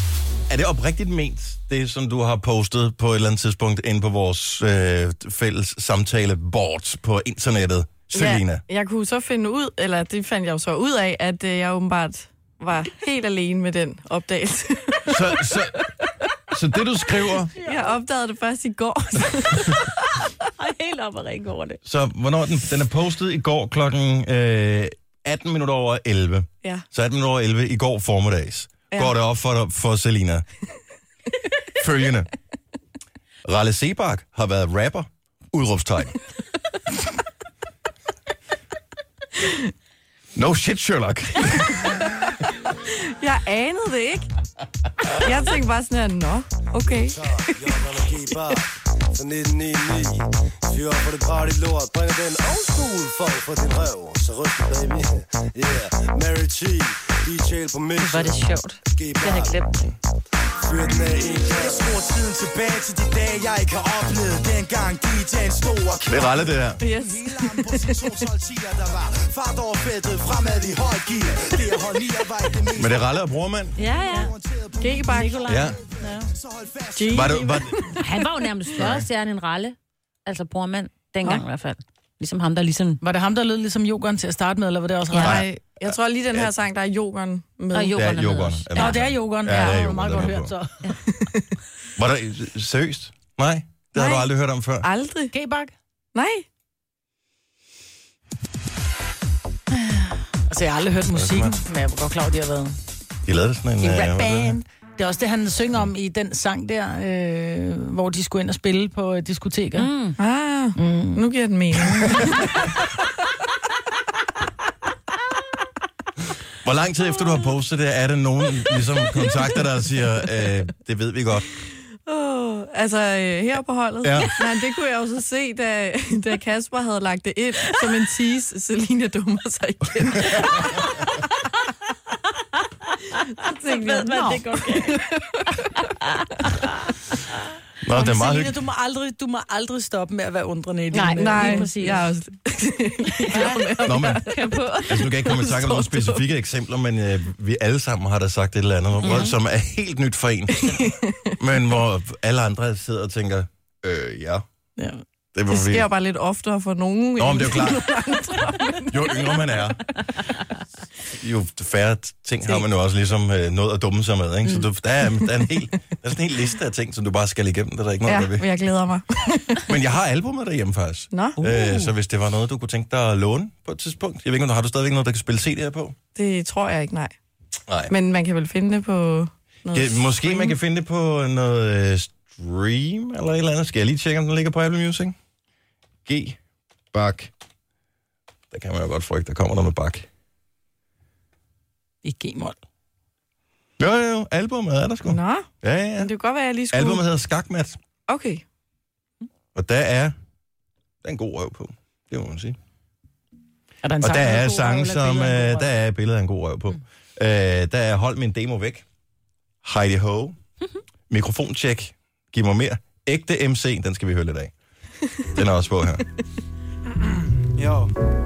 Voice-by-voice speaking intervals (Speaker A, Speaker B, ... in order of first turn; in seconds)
Speaker A: 0.5-8.6, 15.1-15.9, 16.5-17.5, 21.9-30.4, 31.7-32.3, 33.4-36.2, 40.3-42.1, 66.0-66.8, 72.7-73.8, 75.4-75.8, 77.1-78.0, 78.7-79.1, 85.2-86.5, 87.9-90.5, 92.0-94.9, 101.1-101.5, 103.2-104.6, 116.6-121.5, 124.0-124.4, 137.8-138.6, 143.8-154.4, 155.3-155.9, 157.2-157.9, 158.9-160.0, 161.1-168.5, 169.7-175.9, 177.7-177.9, 179.7-185.2, 186.1-186.4, 186.9-187.3, 188.5-190.1, 193.8-196.1, 196.7-197.8, 199.5-200.1, 201.0-202.6, 204.0-208.8, 209.6-210.3, 211.1-214.5, 215.3-216.1
Speaker B: 8.1-15.2, 17.6-19.8, 42.9-44.3, 45.1-47.7, 66.8-68.1, 74.1-75.4, 77.0-78.9, 85.1-88.0, 89.5-90.0, 91.2-91.4, 93.9-94.3, 94.8-95.3, 96.1-96.4, 110.2-112.7, 122.0-131.1, 133.4-135.6, 141.0-146.2, 150.6-151.1, 155.5-159.6, 168.1-169.6, 171.1-171.9, 176.2-177.2, 177.9-180.6, 195.1-197.0, 198.1-198.4
Speaker C: 20.6-21.8, 58.0-59.9, 73.8-74.3, 78.0-83.0, 85.1-85.4, 87.7-89.0, 109.7-110.2, 140.9-142.0, 143.3-143.7, 144.2-144.8, 149.0-149.3
Speaker D: 46.9-59.8, 60.6-61.8
Speaker E: 61.5-73.0, 73.8-77.3, 217.6-217.9
Speaker F: 75.0-76.3, 83.0-85.3, 88.7-91.0, 95.3-95.7, 100.0-102.8, 103.8-109.9, 110.8-111.2, 133.7-135.1, 137.9-142.0, 143.3-143.6, 144.3-144.6, 154.8-155.0, 192.0-192.6, 203.8-205.7